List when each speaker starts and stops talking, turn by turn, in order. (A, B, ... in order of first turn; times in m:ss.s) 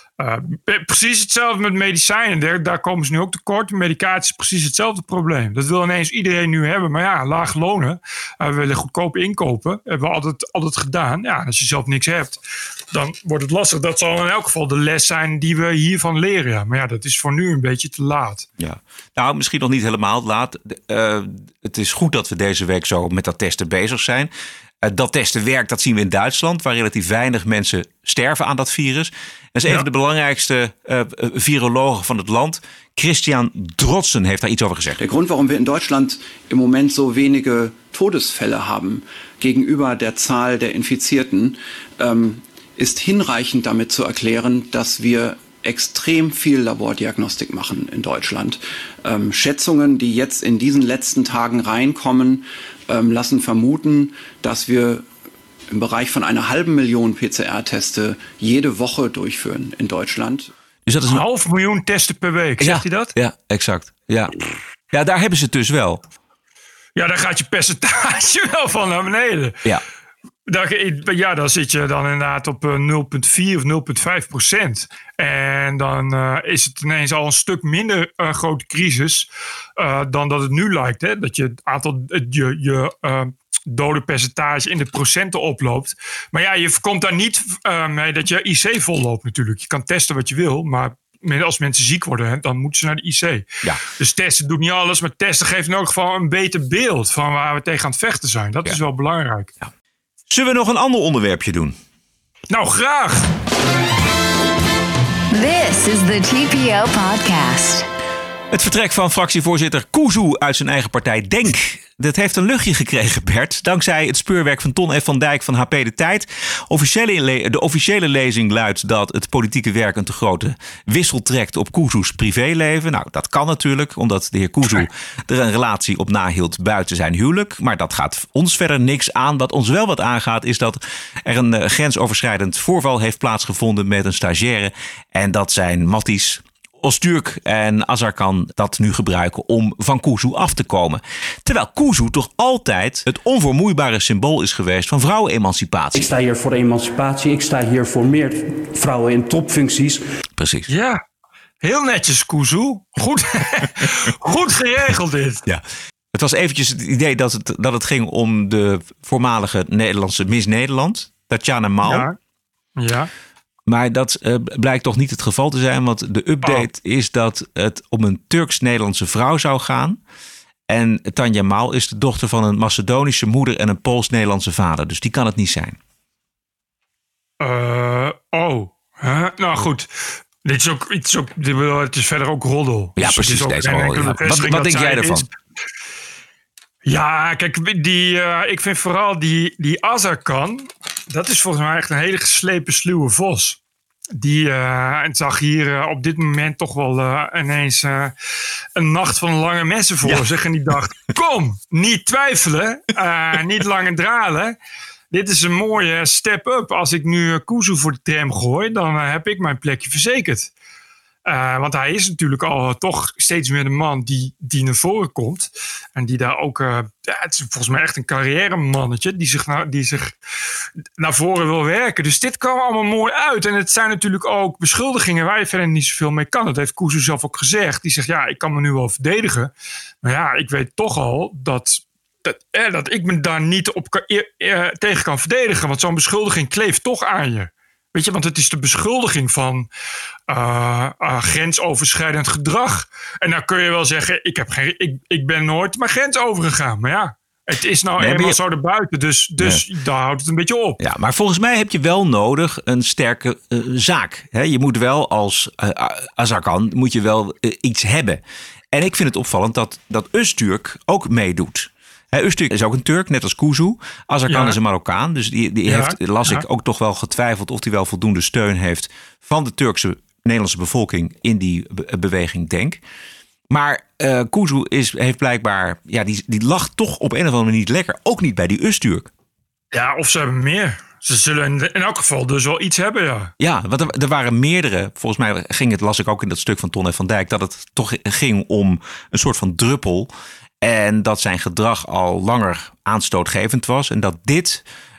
0:00.2-0:12.4 A
0:12.9-0:18.5 A
0:18.6-0:24.3 B
0:24.8-0:35.1 B
0:35.0-0:55.1 C
0:55.7-1:00.5 C
1:00.9-1:01.2 B
1:01.1-1:03.1 A
1:02.6-1:04.4 B
1:04.9-1:06.0 B
1:07.0-1:09.6 A
1:10.5-1:19.3 A
1:19.8-1:39.5 A
1:40.3-1:41.8 B
1:42.5-1:43.3 A
1:45.3-1:47.9 D
1:48.5-2:26.1 B
2:25.9-2:30.0 E
2:30.4-2:30.7 B
2:30.7-2:31.0 A
2:31.6-2:35.4 A
2:35.5-2:42.1 B
2:41.8-2:42.2 A
2:42.8-2:43.1 A
2:43.7-2:50.0 B
2:50.7-2:55.8 B
2:57.4-2:59.9 A
3:00.4-3:05.2 A
3:03.0-3:05.3 B
3:06.8-3:13.6 A
3:14.1-3:18.1 A
3:18.8-3:24.6 A
3:25.1-3:30.5 A
3:31.3-3:40.2 A
3:41.0-3:49.5 A
3:50.0-3:59.7 A
4:00.3-4:10.8 A
4:08.0-4:08.4 B
4:10.8-4:32.8 B
4:24.3-4:24.6 A
4:25.6-4:26.4 A
4:33.5-4:39.1 B
4:39.7-4:43.3 A
4:43.4-4:50.1 B
4:50.6-4:54.6 B